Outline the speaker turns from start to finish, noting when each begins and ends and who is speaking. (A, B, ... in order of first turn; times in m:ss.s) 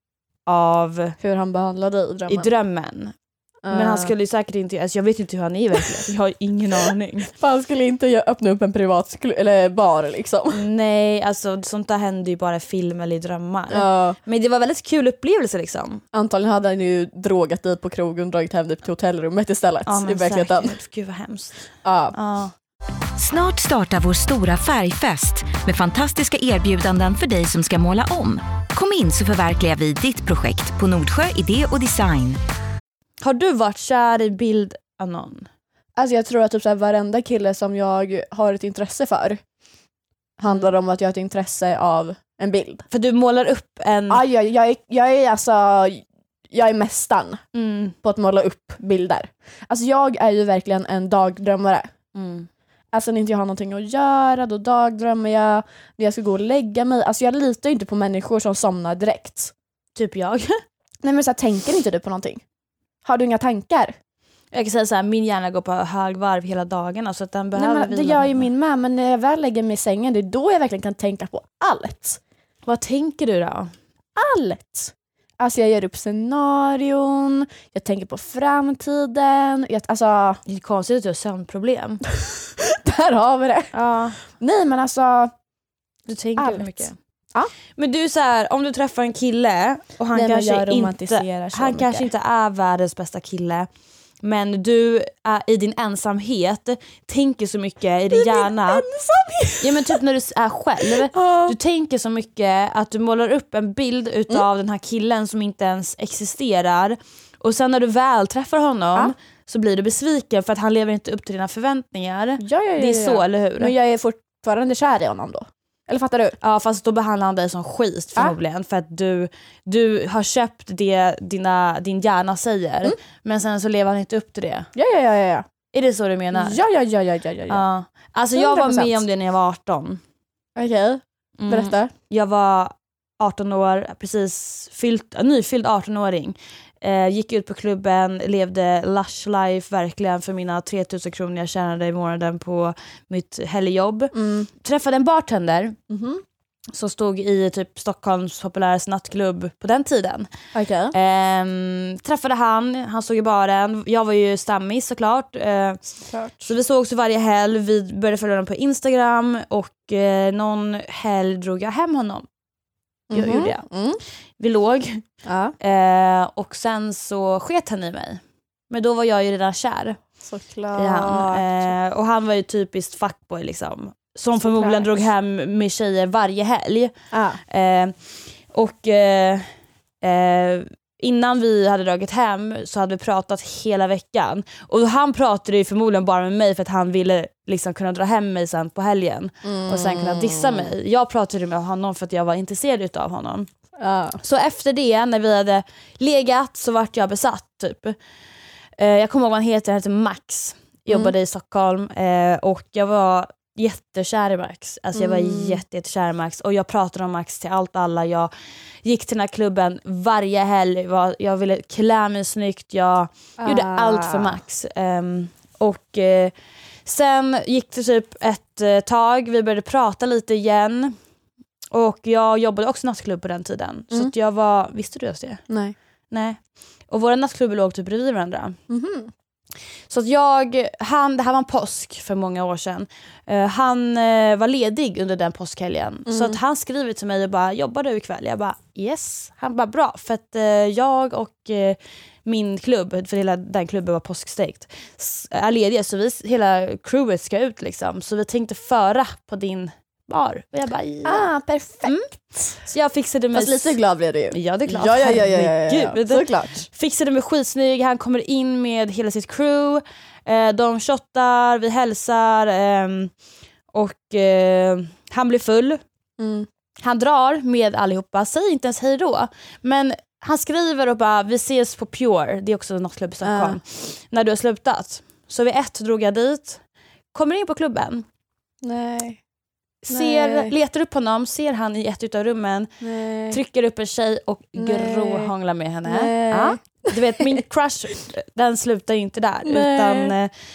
0:00.5-0:01.2 A
0:01.2-0:02.5 B
0:02.3-0:03.1 A
0:03.6-0:04.1 B
0:03.7-0:07.3 A
0:07.4-0:10.6 B
0:10.5-0:16.0 A
0:13.7-0:14.2 B
0:16.1-0:20.8 B
0:19.9-0:21.6 A
0:21.8-0:22.2 B
0:22.1-0:22.5 A
0:23.2-0:32.4 C
0:33.2-0:35.5 A
0:36.0-0:39.4 B
0:40.4-0:42.9 B
0:42.9-0:44.2 A
0:44.1-0:47.4 B
0:47.5-0:48.0 A
0:48.0-0:51.9 B
0:52.2-0:52.5 A
0:52.9-0:59.5 B
1:00.0-1:00.6 A
1:01.0-1:02.4 B
1:03.0-1:03.9 B
1:04.5-1:08.5 A
1:07.6-1:12.2 B
1:12.7-1:13.7 A
1:14.2-1:20.4 B
1:20.5-1:22.0 A
1:22.1-1:25.3 B
1:23.7-1:24.2 A
1:26.1-1:27.0 A
1:26.4-1:27.5 B
1:27.8-1:33.7 A
1:30.1-1:32.1 B
1:34.2-1:38.8 A
1:38.1-1:40.0 B
1:39.6-1:53.7 A
1:40.8-1:41.6 B
1:52.4-1:56.4 B
1:56.4-2:04.7 A
2:04.8-2:05.5 B
2:05.7-2:06.6 A
2:06.4-2:07.6 B
2:07.5-2:10.0 A
2:08.4-2:09.0 B
2:10.6-2:11.9 B
2:11.4-2:25.8 A
2:24.1-2:24.5 B
2:25.9-2:26.2 B
2:26.7-2:30.3 A
2:30.5-2:30.9 B
2:30.9-2:35.8 A
2:36.1-2:36.5 B
2:36.4-2:42.3 A
2:43.1-2:44.0 B
2:43.1-2:43.7 A
2:44.4-2:45.0 A
2:45.2-2:45.5 B
2:45.6-2:50.0 A
2:50.2-2:51.7 B
2:50.8-2:56.9 A
2:54.4-2:54.9 B
2:57.1-2:57.4 B
2:57.5-2:58.0 A
2:58.5-2:59.5 A
3:00.0-3:13.5 A
3:09.4-3:10.7 B
3:13.8-3:14.2 B
3:14.2-3:18.0 A
3:18.8-3:28.3 A
3:24.9-3:25.6 B
3:28.8-3:36.3 A
3:33.4-3:34.4 B
3:36.8-3:40.9 A
3:41.7-3:45.4 A
3:45.5-3:45.8 B
3:46.1-3:48.6 A
3:48.7-3:49.1 B
3:49.9-4:11.3 A
3:56.1-3:56.4 B
4:11.0-4:12.0 B
4:11.8-4:12.1 A
4:12.6-4:13.8 A
4:13.3-4:16.7 B
4:14.3-4:23.1 A
4:23.7-4:25.8 A
4:26.2-4:26.5 B
4:26.8-4:36.6 A
4:33.2-4:33.6 B
4:37.1-4:38.0 A
4:38.6-4:39.2 B
4:39.8-4:42.8 A
4:39.9-4:40.5 B
4:42.8-4:43.4 B
4:43.3-4:50.3 A
4:44.6-4:45.3 B
4:45.9-4:47.4 B
4:49.4-4:50.1 B